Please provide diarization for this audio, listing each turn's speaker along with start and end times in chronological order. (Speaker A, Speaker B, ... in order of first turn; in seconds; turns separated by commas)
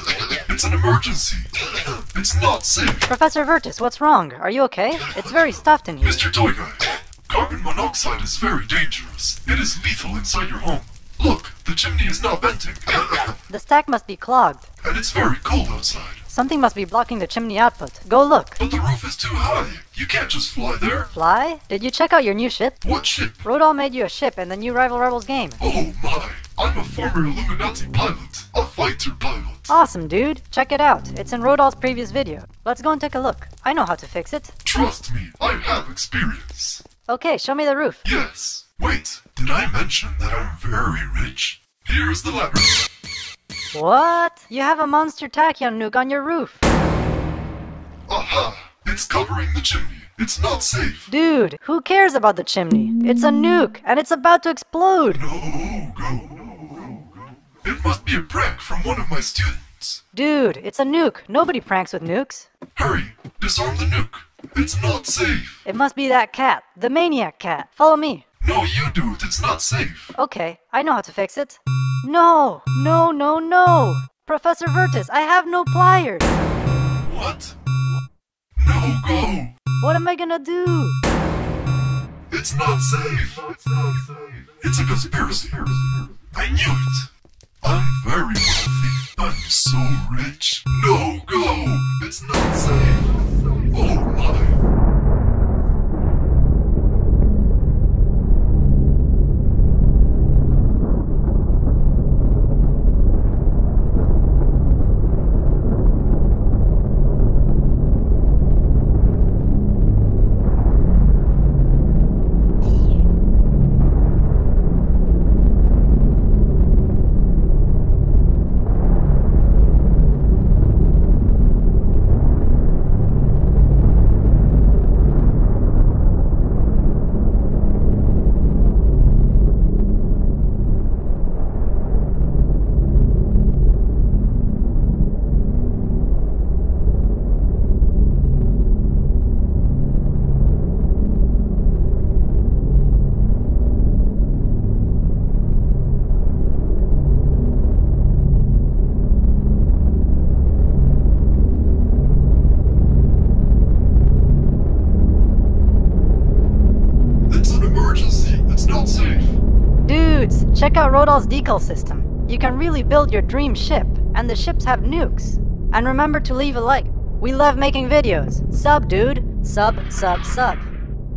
Speaker A: 0.3-3.1, Speaker B: 3.1-6.3, Speaker A: 6.0-13.2, Speaker B: 13.5-14.7, Speaker A: 14.8-16.2, Speaker B: 16.3-18.6, Speaker A: 18.6-21.1, Speaker B: 21.1-22.8, Speaker A: 22.8-23.5, Speaker B: 23.4-25.6, Speaker A: 25.6-29.7, Speaker B: 29.7-34.6, Speaker A: 34.6-36.8, Speaker B: 37.1-38.0, Speaker A: 38.0-42.9, Speaker B: 43.7-46.6, Speaker A: 48.1-51.1, Speaker B: 51.1-55.2, Speaker A: 55.1-57.0, Speaker A: 57.6-60.0, Speaker B: 60.1-62.5, Speaker A: 62.8-65.6, Speaker B: 65.7-68.2, Speaker A: 68.4-70.2, Speaker B: 70.2-76.3, Speaker A: 77.0-77.5, Speaker A: 78.6-79.5, Speaker B: 79.8-81.0, Speaker A: 82.3-87.1, Speaker A: 87.6-94.6, Speaker A: 157.3-159.4, Speaker B: 159.8-170.7